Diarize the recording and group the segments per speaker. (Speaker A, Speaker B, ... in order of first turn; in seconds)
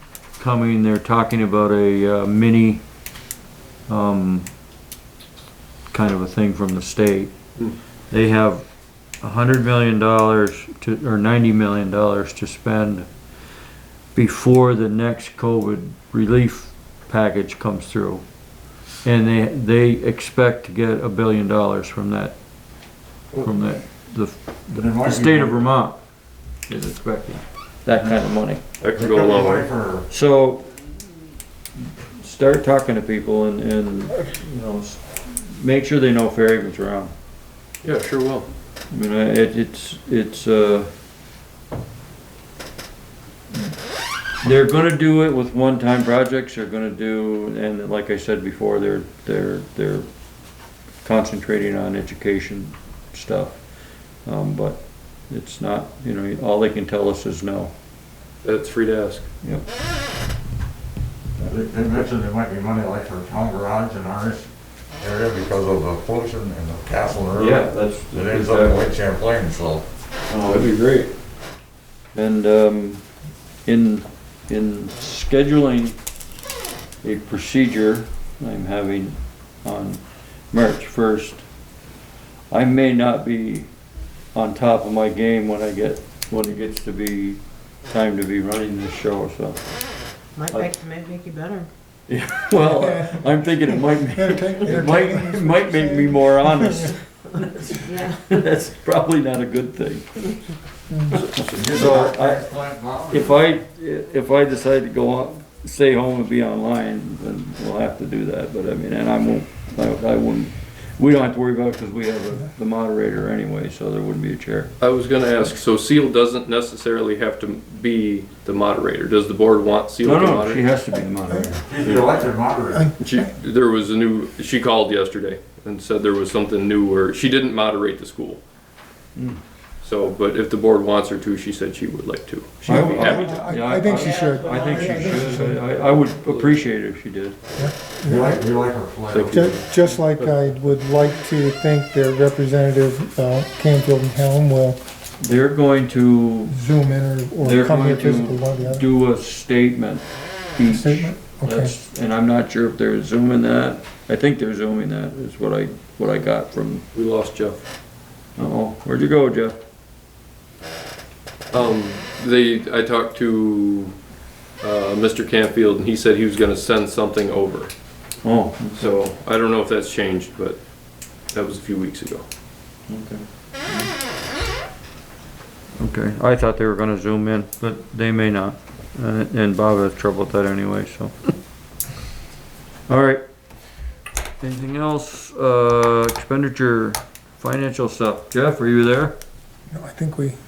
Speaker A: 0.4-2.8, 3.9-4.5, 5.9-7.3, 8.1-8.7, 9.2-13.1, 14.1-18.2, 19.0-22.4, 23.4-26.0, 26.7-28.6, 30.1-30.9, 32.2-37.1, 38.9-40.9, 44.4-50.1, 51.0-53.6, 54.2-57.7, 67.4-69.0, 70.3-70.7, 72.1-73.0, 73.7-76.0, 77.0-81.4, 82.5-83.7, 84.3-90.7, 92.1-97.0, 97.7-100.4, 101.1-102.5, 103.1-114.7, 120.0-121.5, 123.0-123.3, 129.2-129.4, 132.6-137.4, 145.2-146.6, 147.4-156.8, 158.4-159.6, 168.2-169.0, 172.9-173.9, 175.8-181.3, 182.9-183.2, 184.4-189.2
Speaker B: 24.7-25.6, 28.9-30.1, 61.4-64.5, 65.0-69.9, 101.4-103.4, 121.5-122.9, 138.0-139.6
Speaker C: 28.8-29.7, 37.8-38.5, 58.4-59.3, 70.5-71.1, 114.8-120.6, 121.8-122.1, 123.2-128.4, 129.8-133.5, 135.6-136.7, 139.1-140.6, 156.9-157.6, 161.5-164.0, 164.6-167.7, 168.8-170.6, 171.3-172.2
Speaker D: 90.4-91.7, 97.3-98.3, 133.8-135.6
Speaker E: 92.6-96.9, 100.9-101.2, 120.9-121.6, 122.7-123.3, 132.7-135.7, 137.6-138.4, 139.3-144.8, 146.5-148.8, 150.7-151.7, 189.7-190.4